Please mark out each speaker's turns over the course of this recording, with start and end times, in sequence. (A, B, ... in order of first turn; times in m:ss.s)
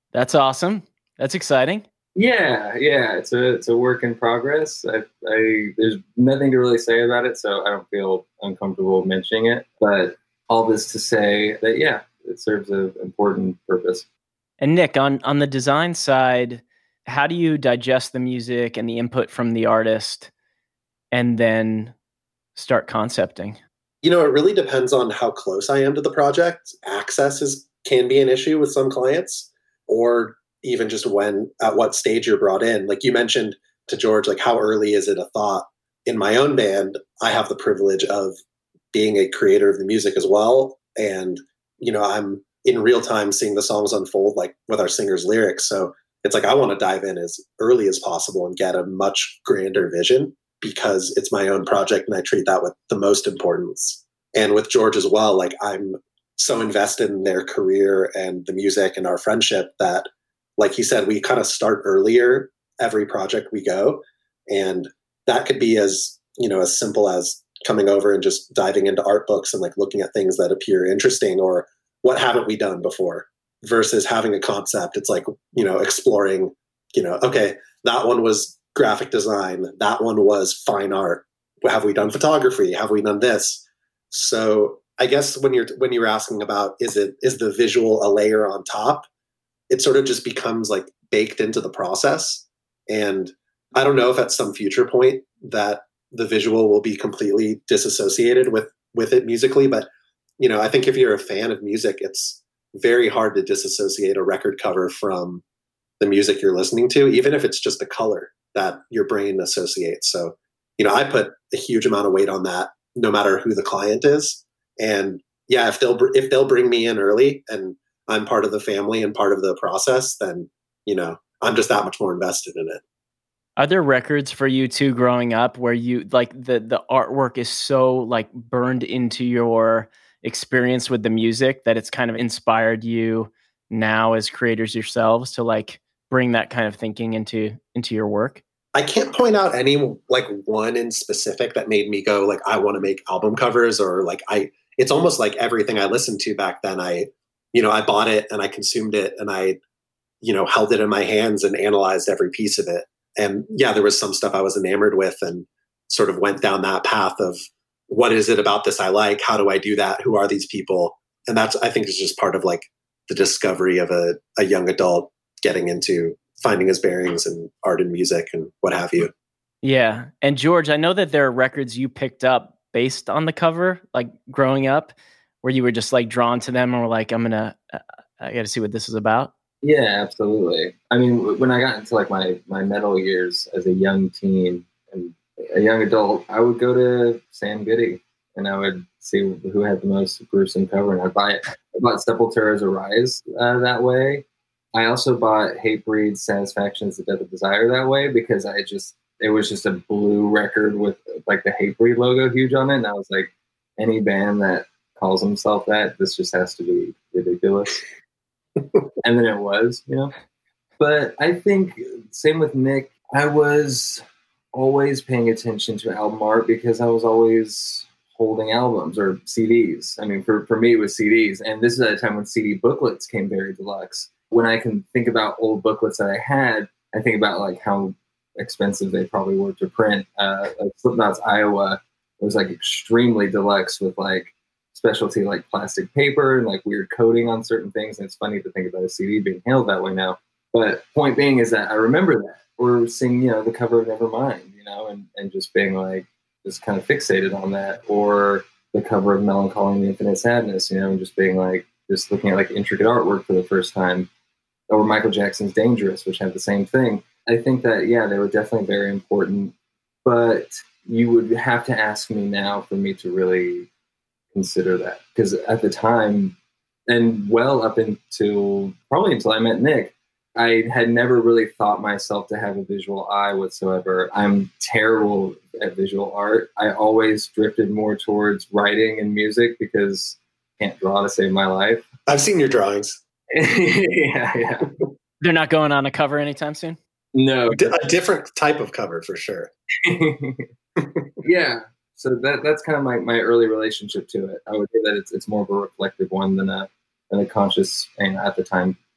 0:00.1-0:01.8 A
0:02.2-0:14.0 B
0:14.6-0:20.3 A
0:21.1-0:21.9 A
0:22.6-0:23.6 A
0:24.0-0:38.4 C
0:38.9-1:00.0 C
1:00.6-1:29.1 C
1:29.7-1:39.9 C
1:40.4-1:45.4 C
1:46.0-2:02.8 C
2:03.6-2:18.4 A
2:18.7-2:29.6 C
2:30.2-2:49.1 C
2:49.6-2:59.3 A
2:59.6-3:27.8 B
3:29.0-3:30.1 B
3:30.8-3:34.0 B
3:34.5-4:14.1 B
4:14.7-4:23.7 B
4:24.3-4:26.4 B
4:26.9-4:41.8 B
4:42.1-4:43.0 C
4:43.3-4:44.7 B
4:45.2-4:46.8 A
4:47.1-4:47.8 B
4:47.5-4:49.5 C
4:49.8-4:50.4 B
4:50.8-4:51.1 C
4:51.2-4:58.8 B